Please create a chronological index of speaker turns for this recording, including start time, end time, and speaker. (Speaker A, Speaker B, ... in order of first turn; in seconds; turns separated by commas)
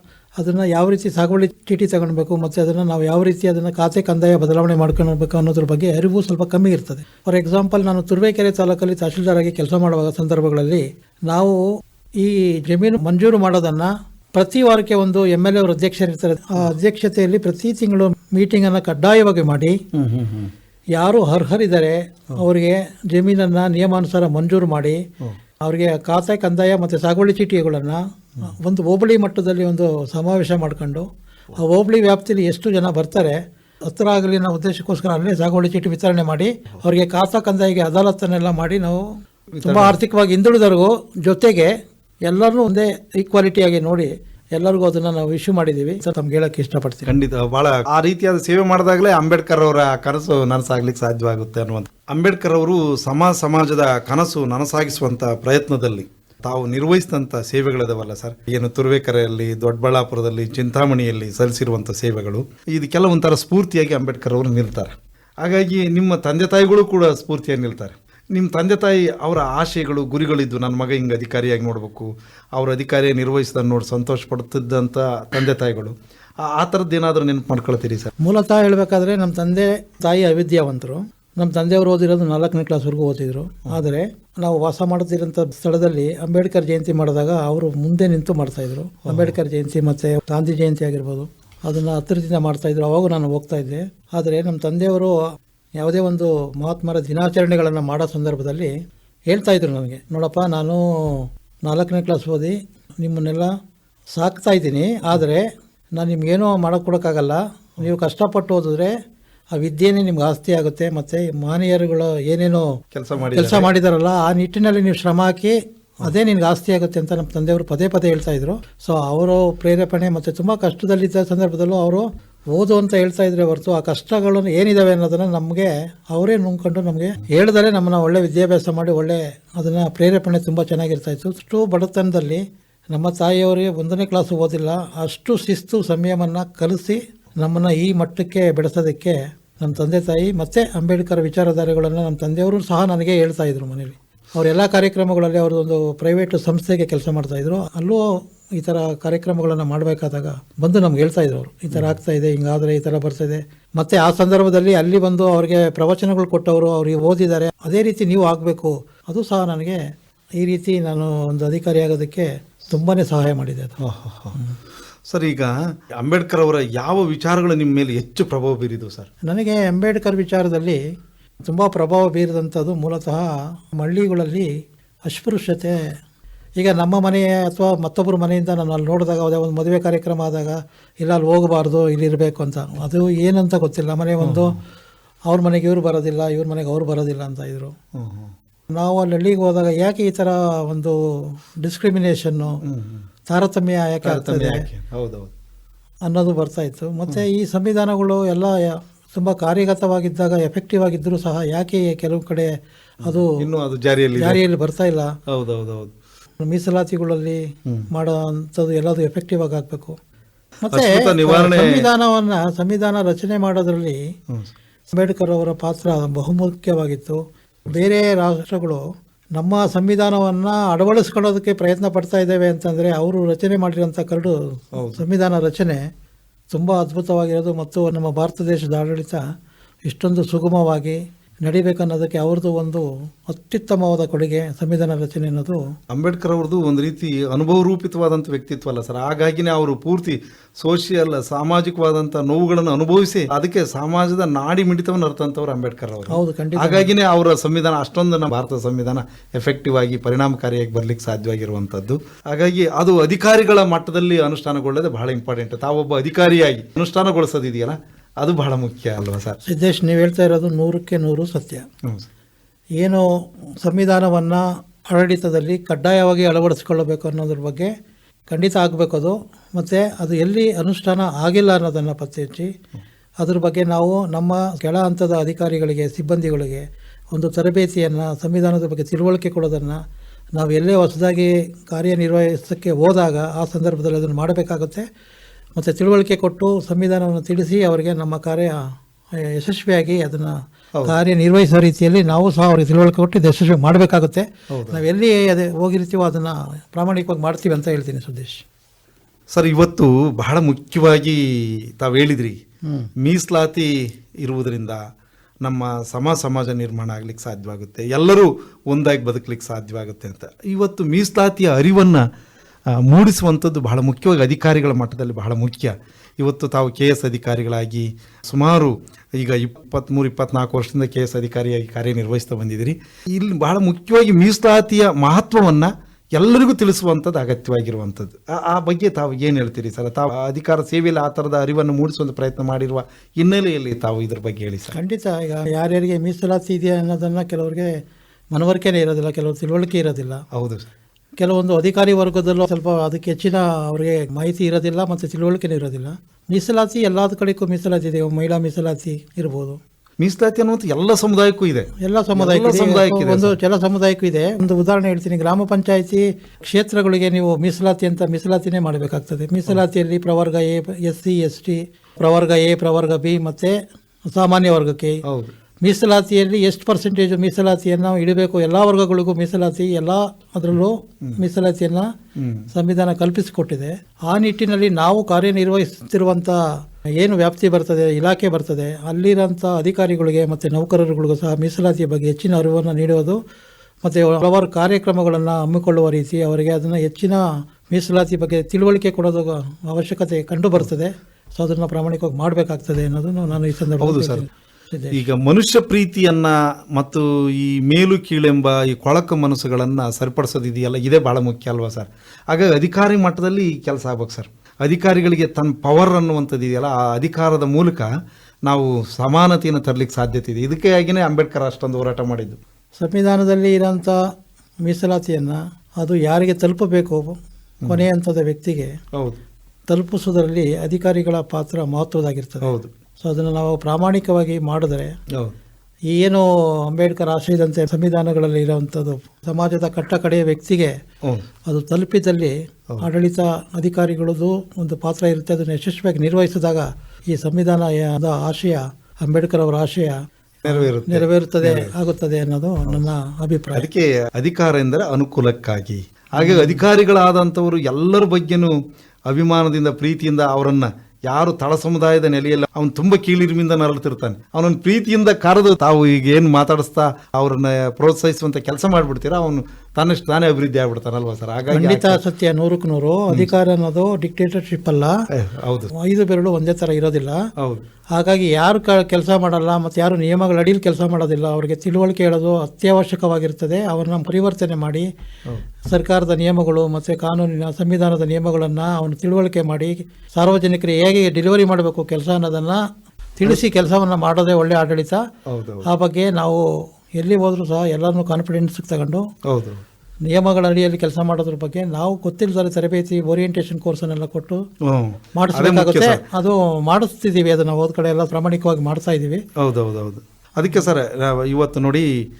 Speaker A: 0.4-11.6, Speaker A: 12.2-19.8, Speaker B: 19.9-20.5, Speaker A: 21.0-25.0, Speaker A: 25.6-31.0, Speaker A: 31.6-39.0, Speaker B: 39.5-40.0, Speaker A: 39.6-41.7, Speaker A: 42.2-47.2, Speaker B: 47.0-75.9, Speaker B: 76.5-78.1, Speaker A: 78.2-95.2, Speaker B: 89.0-89.3, Speaker A: 95.8-98.7, Speaker A: 99.3-103.5, Speaker A: 104.1-105.4, Speaker A: 106.0-108.9, Speaker A: 109.5-112.7, Speaker B: 112.9-113.7, Speaker A: 113.3-148.0, Speaker A: 148.6-159.8, Speaker B: 151.7-152.0, Speaker A: 160.4-163.8, Speaker B: 163.8-164.4, Speaker B: 165.1-169.1, Speaker A: 169.2-170.8, Speaker A: 171.4-174.5, Speaker A: 175.1-175.8, Speaker A: 176.6-184.6, Speaker B: 184.2-184.6, Speaker A: 185.3-187.7, Speaker B: 187.9-188.3, Speaker A: 188.7-192.6, Speaker B: 192.6-193.1, Speaker A: 193.3-194.6, Speaker B: 194.0-195.3, Speaker A: 196.0-202.5, Speaker A: 203.0-203.3, Speaker B: 203.0-204.4, Speaker A: 204.2-205.1, Speaker B: 205.3-205.9, Speaker A: 206.5-210.0, Speaker A: 210.6-214.0, Speaker B: 210.7-211.9, Speaker A: 214.9-218.8, Speaker A: 219.3-224.3, Speaker B: 224.7-225.0, Speaker A: 224.9-225.8, Speaker A: 226.5-229.2, Speaker A: 229.9-235.6, Speaker B: 235.9-259.4, Speaker A: 246.1-246.9, Speaker A: 259.4-261.6, Speaker A: 262.8-263.0, Speaker A: 263.6-267.7, Speaker A: 268.3-272.5, Speaker A: 273.2-279.8, Speaker A: 280.3-284.8, Speaker A: 285.6-288.6, Speaker A: 289.2-290.3, Speaker A: 290.8-298.4, Speaker B: 294.5-294.8, Speaker B: 299.3-302.4, Speaker A: 302.6-302.9, Speaker B: 303.0-304.8, Speaker B: 305.4-312.1, Speaker B: 312.7-334.8, Speaker A: 334.7-337.7, Speaker A: 338.3-340.2, Speaker B: 340.3-340.6, Speaker A: 341.2-349.6, Speaker B: 350.0-353.3, Speaker A: 351.8-363.5, Speaker A: 364.1-365.0, Speaker B: 365.1-365.3, Speaker A: 365.6-371.9, Speaker B: 372.2-372.5, Speaker A: 372.5-376.4, Speaker A: 377.0-383.2, Speaker A: 383.8-395.0, Speaker B: 393.8-394.2, Speaker B: 394.9-407.9, Speaker B: 408.4-412.4, Speaker A: 412.8-414.0, Speaker A: 414.6-418.7, Speaker A: 419.7-424.9, Speaker B: 422.4-422.7, Speaker A: 425.9-430.7, Speaker A: 431.5-443.7, Speaker B: 440.4-441.7, Speaker B: 443.6-448.6, Speaker A: 446.1-446.6, Speaker B: 449.1-462.0, Speaker A: 461.5-464.9, Speaker B: 465.1-465.7, Speaker A: 465.7-467.2, Speaker A: 467.9-474.9, Speaker A: 475.6-482.6, Speaker A: 483.2-485.0, Speaker B: 485.3-485.6, Speaker A: 485.6-486.4, Speaker A: 487.0-489.0, Speaker B: 489.3-489.6, Speaker A: 490.1-494.4, Speaker B: 494.6-496.0, Speaker A: 495.1-499.2, Speaker B: 499.4-501.9